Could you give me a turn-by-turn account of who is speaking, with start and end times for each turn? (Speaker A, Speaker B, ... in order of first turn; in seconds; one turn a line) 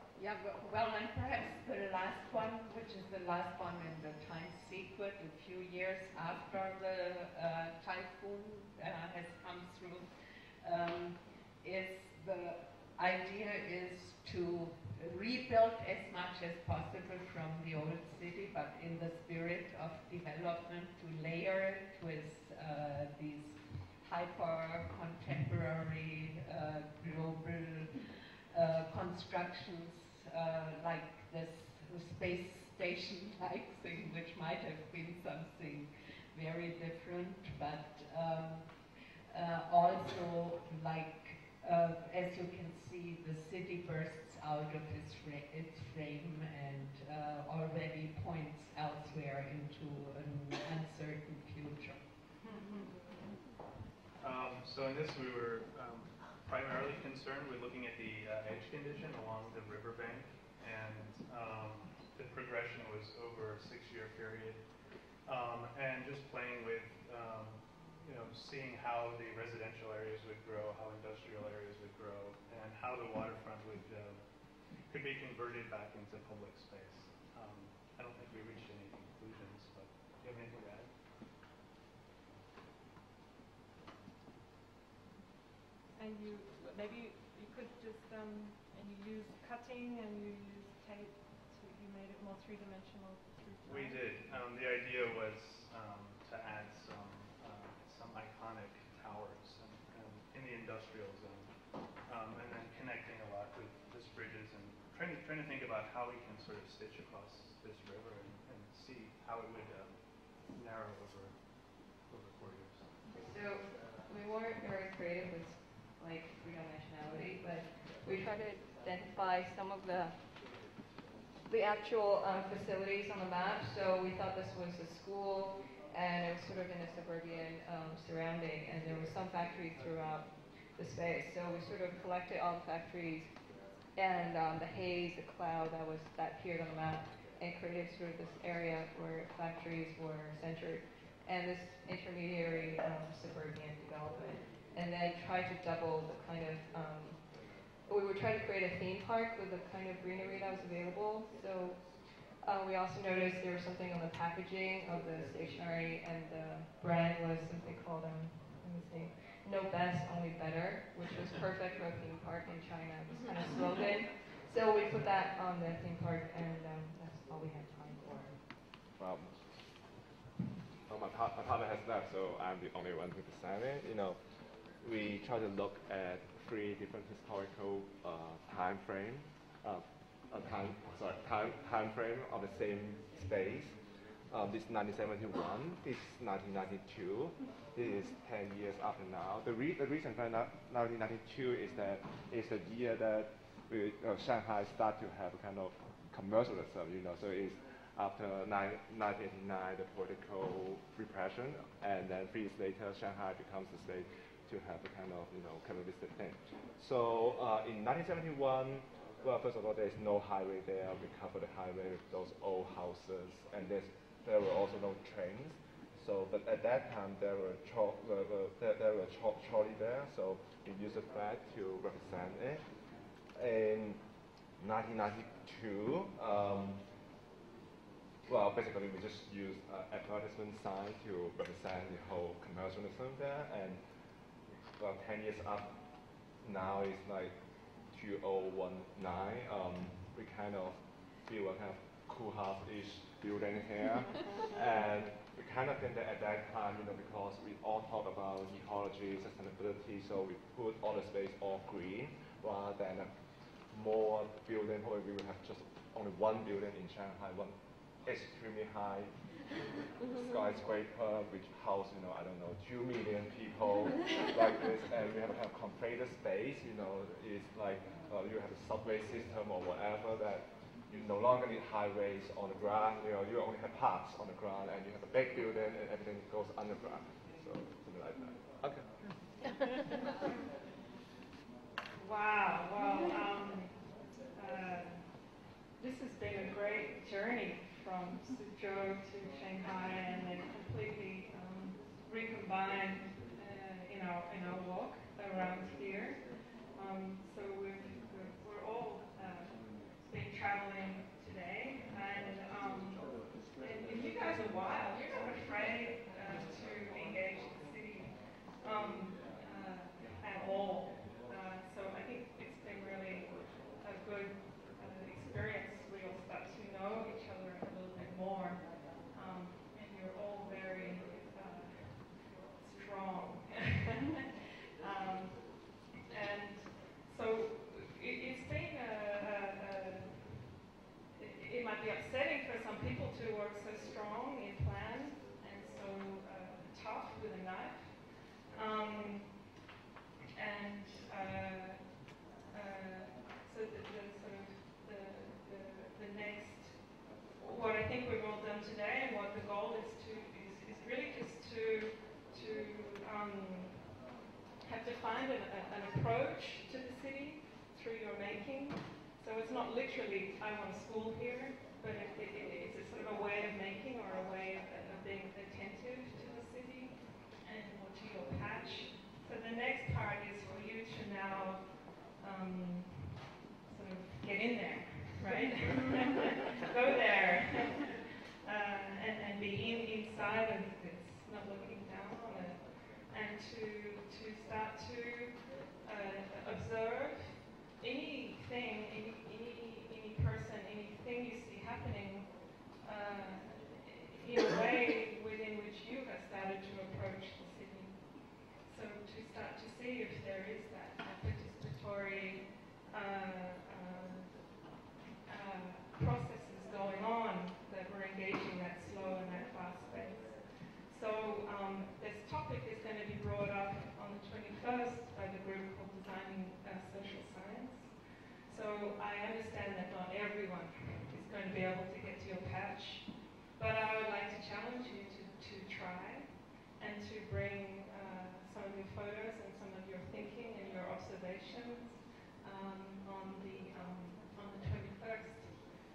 Speaker A: 0.1-52.1
Speaker B: 54.2-64.7
Speaker B: 65.2-80.9
Speaker C: 86.0-90.3
Speaker C: 91.5-93.2
Speaker B: 93.7-112.9
Speaker D: 113.1-120.2
Speaker D: 121.5-168.4
Speaker E: 169.0-169.5
Speaker E: 170.9-222.7
Speaker E: 223.3-226.9
Speaker E: 228.3-259.4
Speaker E: 260.1-278.9
Speaker F: 282.1-283.8
Speaker F: 284.4-285.2
Speaker F: 285.8-303.1
Speaker C: 288.6-289.6
Speaker C: 301.1-302.6
Speaker F: 303.6-322.1
Speaker C: 306.6-308.0
Speaker C: 308.7-309.1
Speaker C: 310.1-310.7
Speaker C: 311.3-313.0
Speaker C: 314.9-317.6
Speaker C: 320.4-321.5
Speaker C: 322.7-323.2
Speaker F: 322.9-323.5
Speaker F: 324.9-330.5
Speaker C: 324.9-325.3
Speaker C: 327.2-329.9
Speaker F: 331.4-339.5
Speaker C: 331.5-337.9
Speaker C: 338.7-339.1
Speaker F: 340.4-342.1
Speaker C: 340.5-341.6
Speaker F: 342.6-353.9
Speaker C: 342.6-346.7
Speaker C: 347.6-351.8
Speaker C: 352.3-353.6
Speaker F: 354.7-373.2
Speaker C: 354.8-358.6
Speaker C: 359.3-359.6
Speaker C: 360.2-365.1
Speaker C: 366.2-366.7
Speaker C: 369.2-371.6
Speaker C: 372.3-372.8
Speaker C: 373.8-374.6
Speaker F: 373.9-375.7
Speaker F: 376.8-377.6
Speaker F: 378.6-392.4
Speaker C: 378.7-382.5
Speaker C: 383.2-385.3
Speaker C: 385.9-387.1
Speaker C: 387.9-389.2
Speaker C: 390.0-392.2
Speaker C: 392.9-393.3
Speaker F: 393.0-393.5
Speaker F: 394.3-404.2
Speaker C: 395.3-397.9
Speaker C: 399.7-400.8
Speaker C: 401.6-402.3
Speaker C: 402.9-404.2
Speaker F: 405.4-418.0
Speaker C: 405.7-410.4
Speaker C: 411.4-415.6
Speaker C: 416.4-417.5
Speaker F: 418.5-431.8
Speaker C: 418.9-420.2
Speaker C: 421.2-421.8
Speaker C: 423.7-425.2
Speaker C: 427.4-428.2
Speaker C: 429.0-431.7
Speaker F: 432.4-433.1
Speaker F: 433.7-435.6